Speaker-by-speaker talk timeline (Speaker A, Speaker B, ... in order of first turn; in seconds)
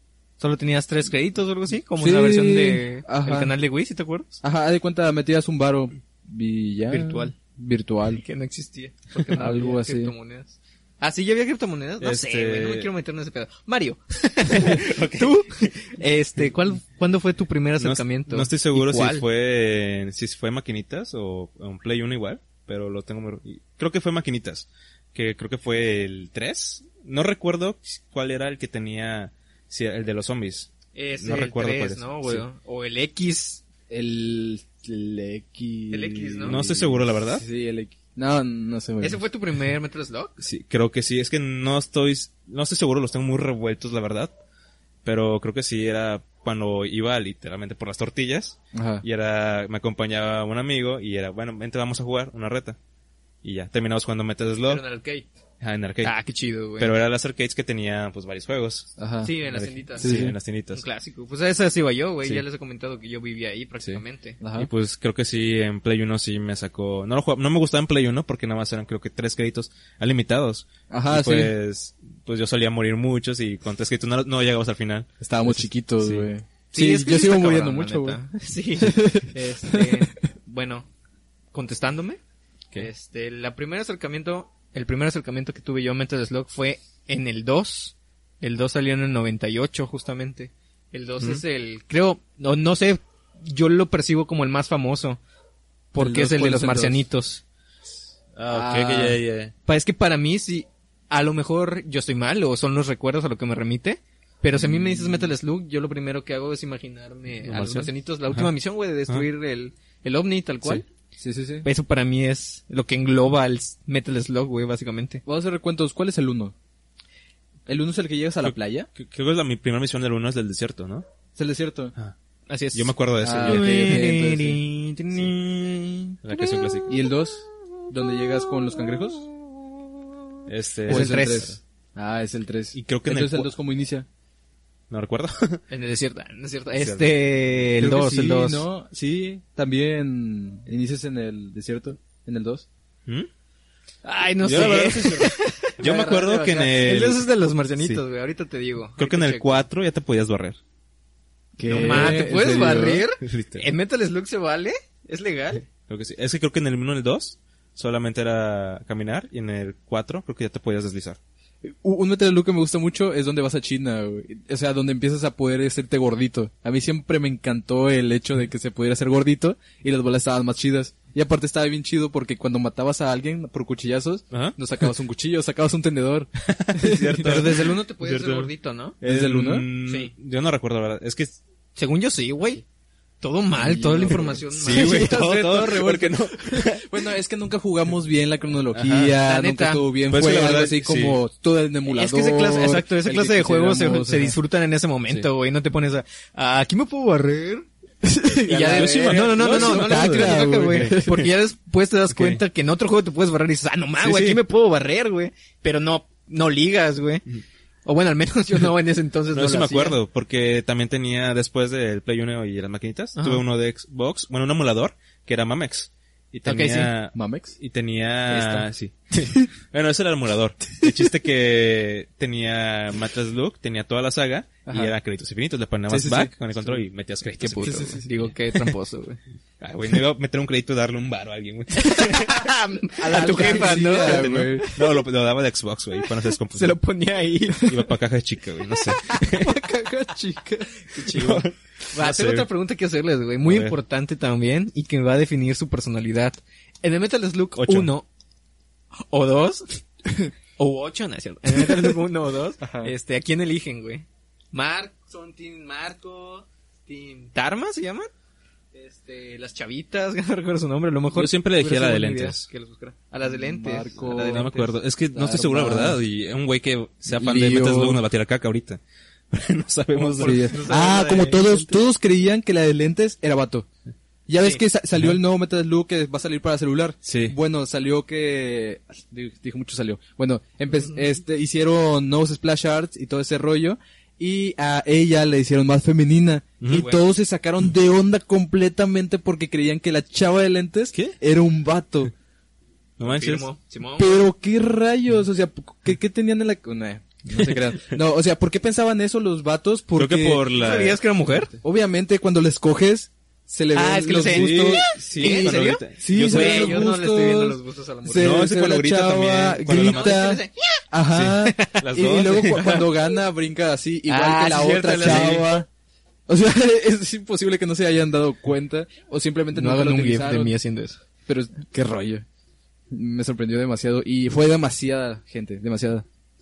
Speaker A: 0.4-4.4, 6.9-7.3, 8.2-19.2, 30.9-33.6, 35.9-36.6, 39.0-40.4, 54.7-55.3, 56.0-56.9, 59.2-64.4, 76.7-80.9, 81.5-82.2, 82.8-95.2, 95.9-97.4, 99.7-110.8, 111.6-115.2, 122.5-126.2, 130.9-131.6, 135.7-138.7, 144.0-149.7, 151.6-155.6, 177.2-179.0, 179.9-180.1, 181.8-182.7, 183.2-185.3, 189.2-189.9, 191.8-197.7, 198.4-207.2, 207.8-210.0, 213.2-213.4, 216.5-216.9, 218.3-218.7, 227.4-229.2, 231.8-235.0, 236.0-237.7, 238.9-248.1, 249.1-249.7, 250.6-258.1, 258.7-264.7, 269.9-271.8, 286.7-287.0, 293.0-294.2, 300.5-301.6, 303.7-308.4, 309.8-310.8, 311.5-311.8, 312.6-312.8, 314.1-315.5, 319.5-321.0
Speaker B: 2.0-3.5, 4.4-8.2, 9.3-10.1, 33.9-39.2, 48.7-49.0, 59.0-59.3, 60.0-60.4, 64.4-64.7, 70.9-71.5, 75.2-78.2, 78.8-80.0, 96.0-97.0, 98.5-99.1, 104.5-105.3, 111.2-111.7, 115.3-116.5, 117.7-118.9, 121.4-121.9, 123.2-124.6, 126.9-129.3, 130.9-134.1, 137.8-142.7, 151.6-153.1, 161.6-177.4, 179.0-179.7, 183.6-194.4, 198.0-201.2, 217.1-217.6, 224.7-224.9, 225.9-226.8, 227.5-228.1, 233.0-234.7, 252.6-252.9, 263.2-264.5, 265.1-266.0, 267.1-268.0, 270.2-273.7, 274.3-292.1, 294.0-300.4, 301.6-315.7, 316.3-320.5, 321.3-322.2, 322.9-326.1
Speaker C: 12.0-12.9, 14.5-15.7, 17.8-32.5, 36.4-37.5, 40.4-44.3, 45.0-52.8, 53.4-54.8, 55.6-56.1, 56.8-58.9, 59.5-60.8, 64.5-76.3, 98.4-99.5, 107.5-108.5, 118.4-121.1, 122.8-124.1, 126.2-127.0, 130.5-131.4, 132.7-133.5, 134.9-135.6, 136.8-137.2, 144.4-147.3, 149.0-150.6, 151.7-152.2, 153.2-153.7, 155.9-161.2, 174.3-174.6, 176.4-181.4, 184.5-186.9, 188.7-189.2, 190.1-191.2, 198.5-201.2, 202.1-202.4, 204.0-204.4, 209.3-228.0, 229.6-232.5, 233.1-236.8, 237.5-239.6, 241.1-242.5, 243.4-243.8, 247.6-247.9, 261.1-262.5, 264.0-268.8, 269.3-270.6, 277.1-277.4, 286.6-286.9, 293.0-293.4, 297.3-297.8, 299.9-301.0, 304.1-306.9, 308.2-310.3, 311.1-312.7, 315.0-315.3